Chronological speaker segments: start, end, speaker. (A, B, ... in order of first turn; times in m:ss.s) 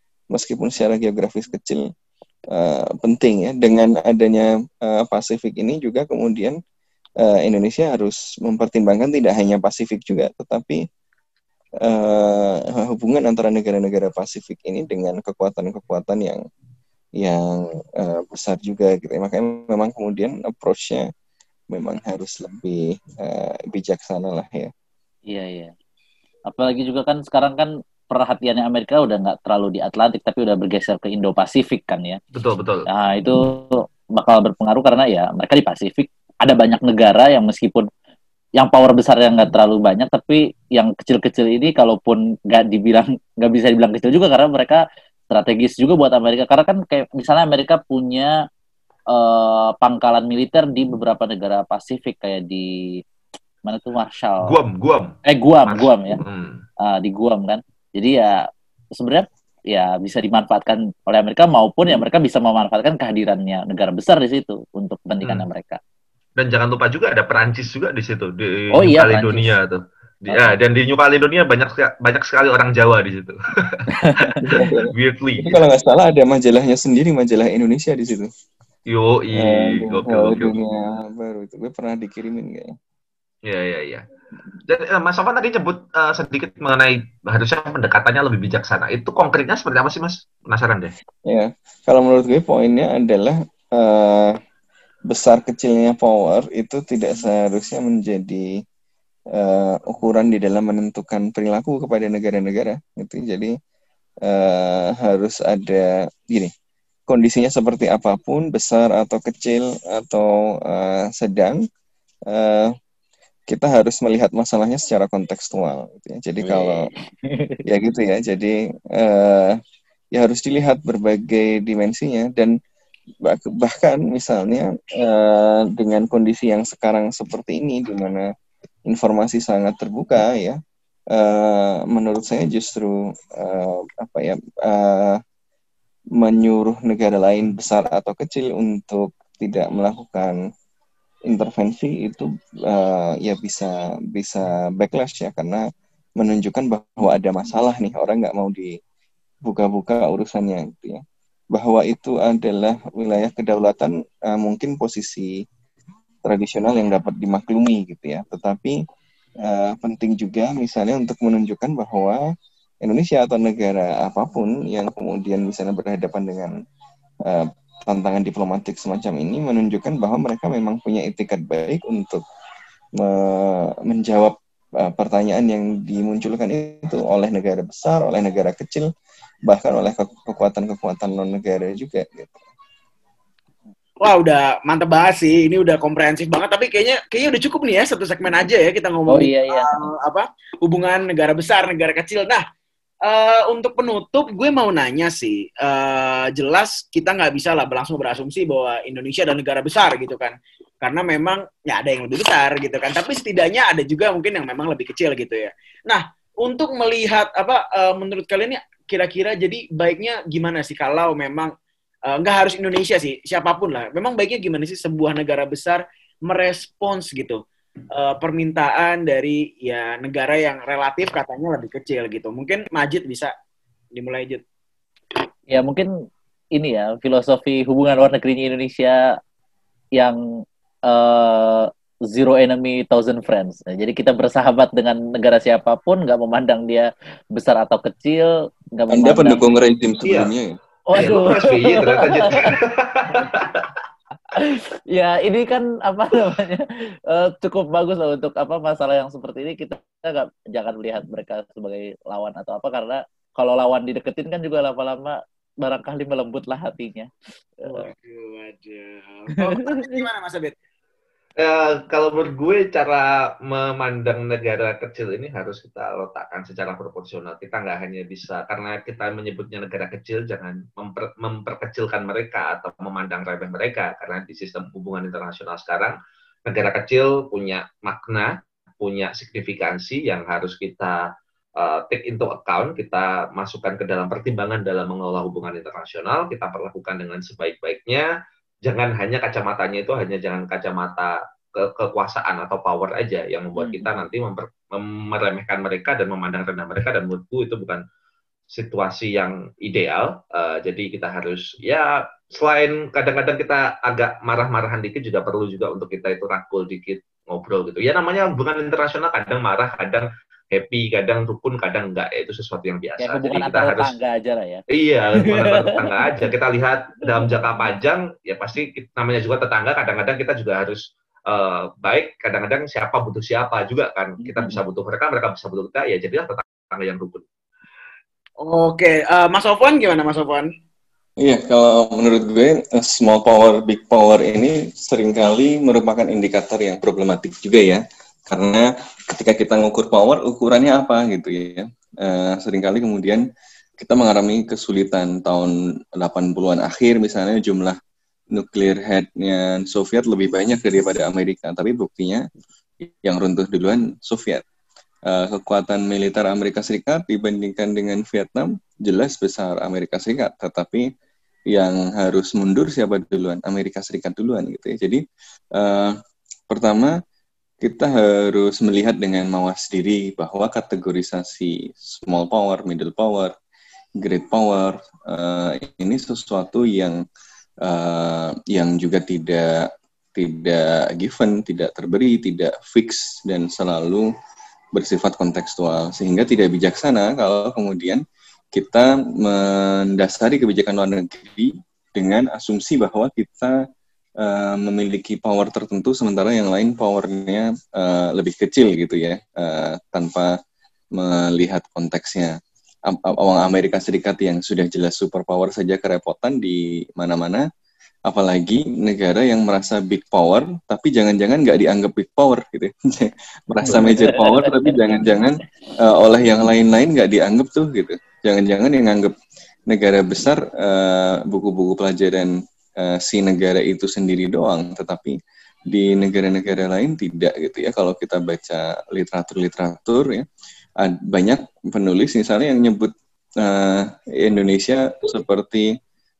0:00.3-0:01.8 A
0:02.5-0:06.6 A
0:07.2-0:10.8 A
0:11.8-0:16.4 A
0:17.2-0:21.1 A
0:21.7-0:24.7 A
0:25.3-0:25.7 B
0:26.5-0:32.2 B
0:32.3-0:32.8 C
0:32.9-0:37.9 B
0:38.6-0:48.3 B
0:49.1-0:52.6 B
0:53.6-0:54.6 B
0:54.4-0:56.6 C
0:55.2-0:56.2 B
0:56.8-0:58.4 B
0:59.0-1:05.8 B
1:06.4-1:14.3 C
1:08.7-1:09.5 B
1:14.0-1:14.3 B
1:14.4-1:18.3 A
1:14.9-1:15.6 C
1:18.9-1:20.5 C
1:19.4-1:22.7 A
1:23.5-1:24.0 C
1:24.7-1:30.9 C
1:31.3-1:34.4 A
1:35.1-1:38.5 A
1:39.4-1:43.6 A
1:44.2-1:46.5 A
1:47.1-1:51.6 A
1:52.3-1:52.7 A
1:53.5-1:56.9 A
1:56.4-1:57.6 B
1:57.6-1:59.6 A
2:00.1-2:02.5 A
2:03.2-2:08.3 A
2:08.9-2:10.6 A
2:11.1-2:15.2 A
2:16.2-2:20.4 A
2:21.3-2:25.6 A
2:26.2-2:28.8 A
2:29.4-2:35.4 A
2:36.2-2:38.8 A
2:39.4-2:42.2 A
2:42.8-2:46.5 A
2:47.2-2:52.2 A
2:53.0-2:58.9 A
2:59.5-3:02.4 A
3:04.0-3:12.4 D
3:09.1-3:09.8 B
3:13.0-3:31.5 D
3:32.1-3:37.4 D
3:37.9-3:43.3 D
3:43.9-3:44.4 D
3:45.5-3:45.9 B
3:46.6-3:49.0 B
3:50.0-3:59.6 B
3:58.9-4:00.6 A
4:00.0-4:00.3 C
4:00.9-4:02.5 B
4:00.9-4:03.7 C
4:04.3-4:17.1 B
4:17.7-4:20.5 D
4:19.6-4:19.9 B
4:21.4-4:35.9 C
4:36.5-4:41.1 C
4:41.6-4:48.1 C
4:48.6-4:57.8 C
4:53.6-4:53.9 B
4:58.5-5:14.0 C
5:13.0-5:14.6 B
5:14.7-5:27.2 C
5:15.2-5:15.8 B
5:17.2-5:17.8 B
5:24.2-5:24.6 B
5:28.4-5:30.5 D
5:31.2-5:43.2 A
5:43.8-5:47.8 A
5:48.3-5:52.2 A
5:52.9-5:54.4 A
5:55.1-6:00.8 A
6:01.5-6:05.0 A
6:05.6-6:05.9 A
6:06.5-6:06.9 A
6:07.6-6:13.3 A
6:14.0-6:17.0 A
6:17.6-6:24.1 A
6:24.7-6:28.0 A
6:28.5-6:33.5 A
6:34.2-6:40.3 A
6:41.0-6:42.3 A
6:42.9-6:47.4 A
6:48.1-6:59.1 A
6:53.6-6:55.2 B
6:59.7-7:05.1 A
7:05.7-7:10.2 A
7:10.8-7:15.7 A